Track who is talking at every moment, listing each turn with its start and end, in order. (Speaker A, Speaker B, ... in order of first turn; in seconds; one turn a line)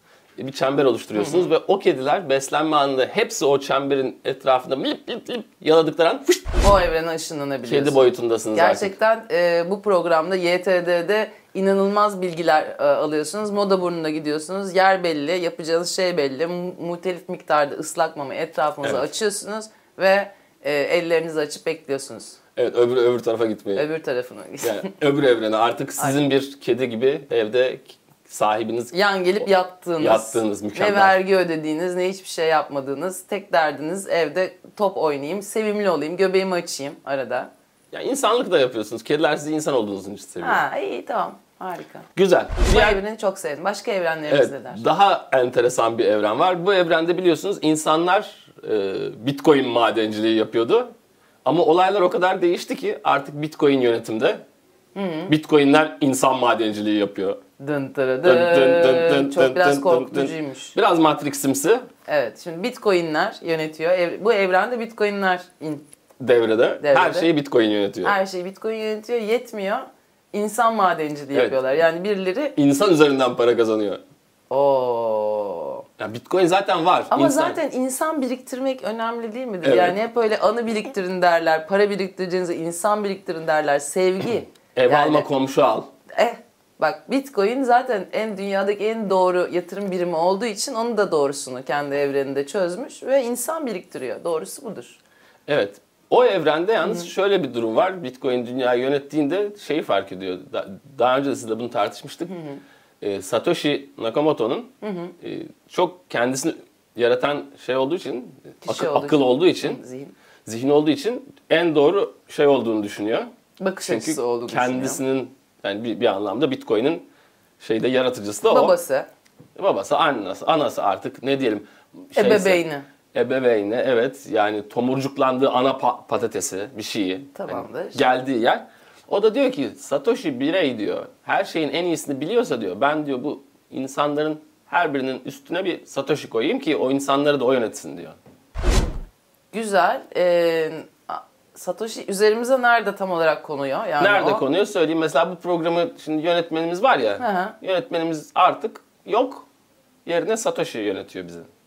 Speaker A: 0.4-6.5
Speaker B: 1.1-1.5
Speaker B: 6.6-22.4
Speaker A: 7.6-8.9
Speaker A: 22.6-23.9
Speaker B: 23.7-24.9
Speaker A: 24.6-28.9
Speaker B: 28.9-37.5
Speaker A: 30.0-31.2
Speaker A: 37.9-40.6
Speaker B: 40.4-42.1
Speaker A: 42.1-43.0
Speaker B: 42.7-44.8
Speaker A: 44.3-50.9
Speaker A: 51.4-54.4
Speaker B: 54.9-55.3
Speaker A: 55.3-57.4
Speaker B: 57.6-60.7
Speaker A: 58.2-61.9
Speaker B: 62.1-65.8
Speaker A: 66.2-68.2
Speaker B: 66.8-67.3
Speaker B: 68.0-72.5
Speaker A: 71.3-71.6
Speaker A: 72.5-74.0
Speaker B: 74.5-75.8
Speaker A: 76.0-77.6
Speaker B: 77.1-85.3
Speaker A: 79.6-80.0
Speaker A: 84.7-85.9
Speaker B: 86.1-95.0
Speaker A: 95.5-102.3
Speaker B: 96.8-97.1
Speaker B: 102.3-102.6
Speaker A: 103.0-109.8
Speaker B: 104.8-105.1
Speaker B: 108.6-110.1
Speaker A: 110.4-113.3
Speaker B: 113.6-115.0
Speaker A: 113.8-117.1
Speaker A: 117.6-118.8
Speaker B: 118.5-119.1
Speaker A: 119.5-138.2
Speaker B: 122.1-122.8
Speaker B: 127.3-128.0
Speaker B: 139.5-144.4
Speaker A: 144.0-149.5
Speaker B: 147.2-147.6
Speaker A: 150.0-151.5